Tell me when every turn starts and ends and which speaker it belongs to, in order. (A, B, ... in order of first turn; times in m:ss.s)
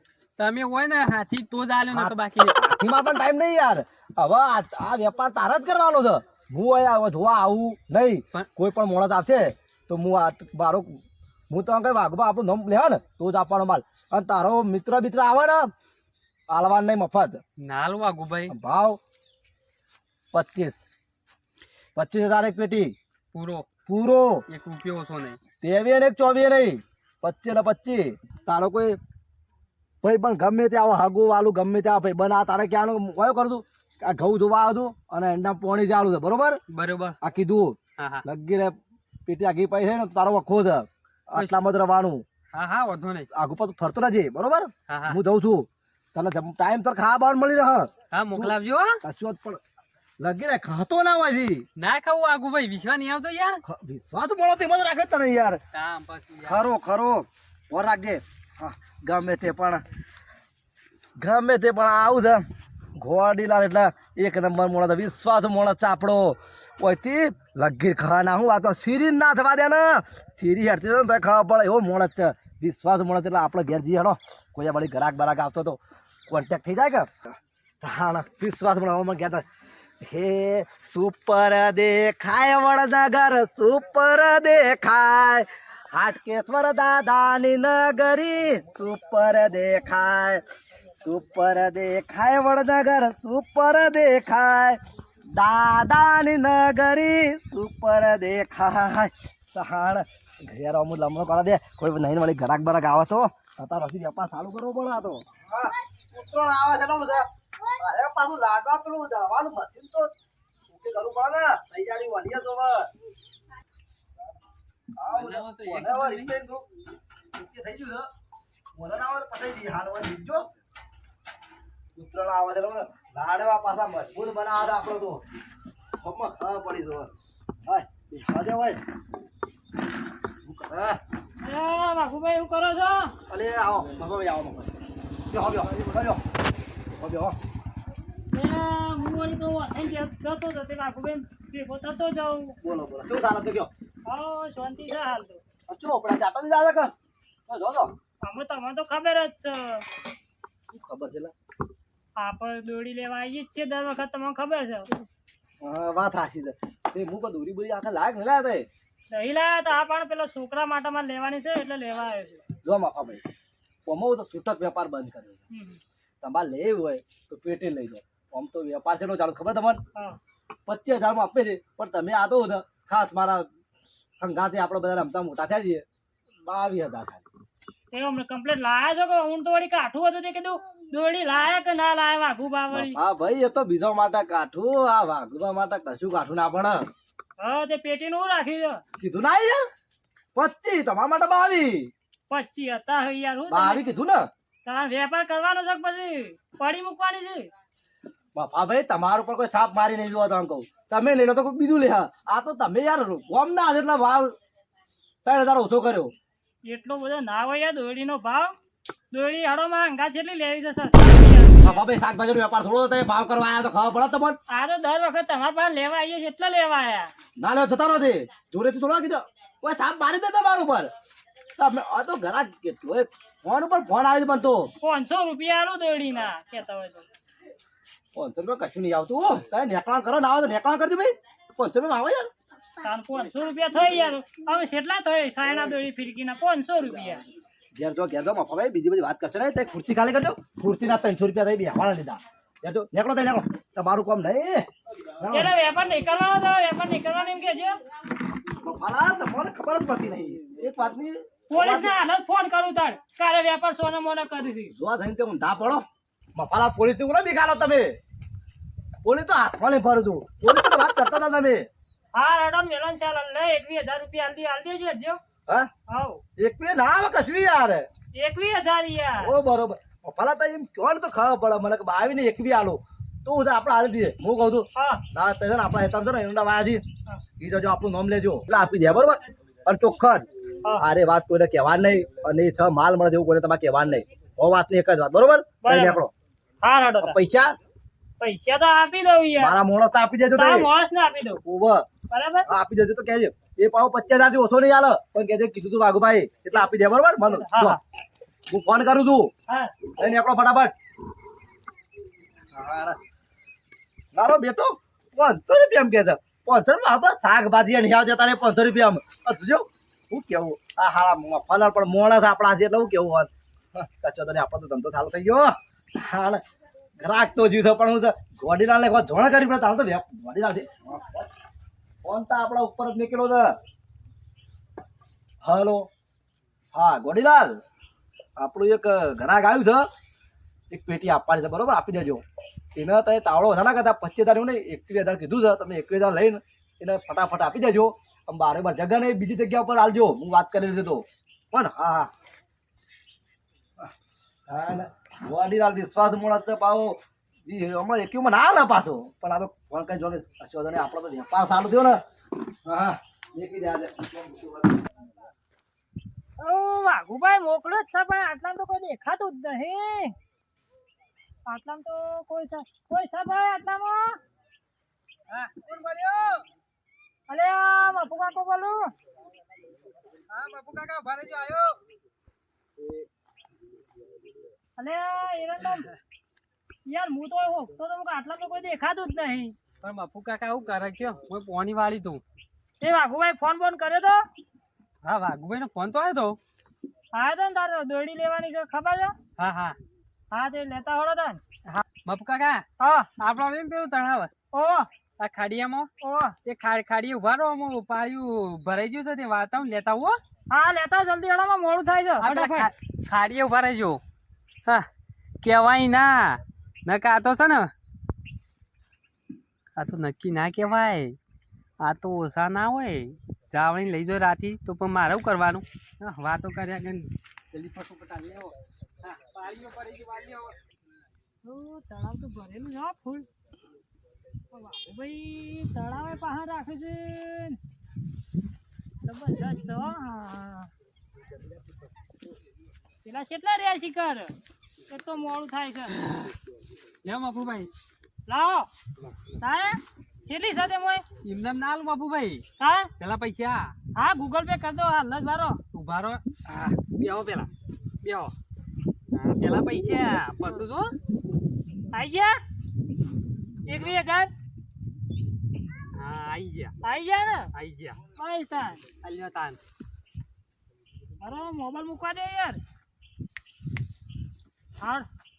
0:00.4-0:02.5 A
0:01.9-0:15.7 B
0:16.5-0:17.4 B
0:17.6-0:18.5 A
0:18.5-0:19.0 B
0:20.3-0:20.8 B
0:21.9-0:22.9 B
0:23.3-0:23.7 A
0:23.9-0:24.4 B
0:24.5-0:25.4 A
0:25.6-0:29.0 B
0:30.0-0:36.6 B
0:36.7-0:37.2 A
0:37.2-0:38.7 B
0:38.0-0:38.2 A
0:39.2-0:42.2 B
0:42.5-0:43.3 A
0:43.3-0:49.6 B
0:44.9-0:45.2 A
0:48.1-0:49.0 A
0:50.2-0:51.6 B
0:51.8-0:53.6 A
0:53.6-0:55.6 B
0:55.7-0:56.6 A
0:56.4-0:59.8 B
1:01.2-1:19.4 B
1:20.0-1:30.4 B
1:31.0-1:34.8 B
1:35.3-1:50.1 B
1:50.7-1:52.9 B
1:55.0-1:56.7 B
1:55.1-1:56.3 A
1:57.3-1:58.1 B
1:58.7-2:00.5 B
2:01.9-2:05.2 B
2:06.0-2:07.1 B
2:07.6-2:08.8 B
2:10.4-2:11.0 B
2:11.4-2:13.1 C
2:13.3-2:14.7 B
2:15.3-2:16.2 B
2:16.9-2:17.4 B
2:18.3-2:22.6 C
2:22.6-2:23.7 B
2:24.1-2:25.4 C
2:25.7-2:26.9 B
2:27.5-2:27.9 B
2:28.2-2:29.8 C
2:30.7-2:31.3 B
2:32.2-2:35.0 C
2:35.6-2:38.7 B
2:39.1-2:42.4 C
2:42.6-2:43.3 B
2:43.8-2:45.4 B
2:45.5-2:45.8 C
2:46.2-2:49.8 B
2:50.7-2:53.5 B
2:54.2-2:55.8 B
2:56.4-2:57.2 B
2:57.9-3:03.0 C
3:02.7-3:06.9 B
3:07.4-3:08.8 C
3:09.0-3:09.7 B
3:10.3-3:11.9 B
3:12.3-3:13.9 C
3:13.5-3:14.3 B
3:14.6-3:17.5 C
3:18.3-3:24.4 B
3:25.2-3:26.1 B
3:26.7-3:28.5 C
3:29.1-3:31.8 C
3:31.6-3:34.4 B
3:34.5-3:37.1 C
3:37.4-3:40.9 B
3:41.6-3:44.7 B
3:44.8-3:47.1 C
3:48.1-3:52.3 B
3:52.8-3:57.2 C
3:57.8-4:05.5 B
4:05.3-4:07.8 C
4:08.6-4:12.0 B
4:11.5-4:14.7 C
4:14.7-4:18.0 B
4:19.0-4:21.7 B
4:22.1-4:25.2 C
4:25.9-4:26.2 C
4:26.4-4:27.9 B
4:28.2-4:29.3 C
4:29.2-4:36.8 B
4:34.8-4:35.0 C
4:37.4-4:46.1 B
4:45.6-4:46.0 C
4:46.6-4:47.2 C
4:47.0-4:47.5 B
4:48.2-4:49.5 C
4:49.4-4:50.7 B
4:50.4-4:51.4 C
4:51.4-4:51.9 B
4:52.1-4:52.5 C
4:52.4-4:57.8 B
4:57.2-4:57.8 C
4:58.5-4:59.3 B
4:59.5-4:59.7 C
4:59.9-5:00.7 B
5:02.5-5:03.0 B
5:04.1-5:16.4 B
5:17.0-5:21.3 B
5:22.0-5:23.6 B
5:25.4-5:25.9 B
5:26.7-5:27.6 B
5:28.4-5:29.9 B
5:30.7-5:32.2 B
5:32.7-5:42.1 B
5:44.5-5:52.0 B
5:52.6-5:55.2 B
5:56.4-6:00.1 C
6:01.5-6:04.2 C
6:05.3-6:06.4 A
6:07.3-6:08.9 C
6:10.3-6:11.8 A
6:14.8-6:15.9 C
6:16.9-6:19.6 C
6:19.8-6:22.2 A
6:22.8-6:24.2 C
6:25.0-6:26.4 A
6:27.1-6:29.2 C
6:29.4-6:29.8 A
6:30.3-6:31.4 C
6:31.7-6:32.6 A
6:32.8-6:33.1 C
6:33.2-6:34.3 A
6:34.5-6:34.9 C
6:35.2-6:35.9 A
6:36.0-6:36.4 C
6:36.4-6:40.2 A
6:40.5-6:42.7 C
6:42.2-6:44.0 A
6:45.4-6:47.7 A
6:49.8-6:51.2 A
6:51.8-7:00.6 A
7:01.4-7:03.3 C
7:04.5-7:07.6 C
7:09.0-7:10.7 C
7:13.0-7:14.3 C
7:14.9-7:16.0 C
7:16.0-7:16.3 A
7:17.0-7:17.7 A
7:18.3-7:18.7 C
7:19.4-7:21.0 C
7:21.2-7:22.4 A
7:22.6-7:22.9 C
7:23.0-7:23.7 A
7:24.0-7:25.6 C
7:25.7-7:27.5 A
7:28.0-7:28.3 A
7:29.1-7:30.9 A
7:31.9-7:32.4 C
7:33.6-7:34.3 C
7:35.9-7:36.7 A
7:36.8-7:37.5 C
7:37.5-7:38.0 A
7:38.1-7:38.8 C
7:39.0-7:39.6 A
7:41.2-7:42.6 C
7:44.8-7:45.1 C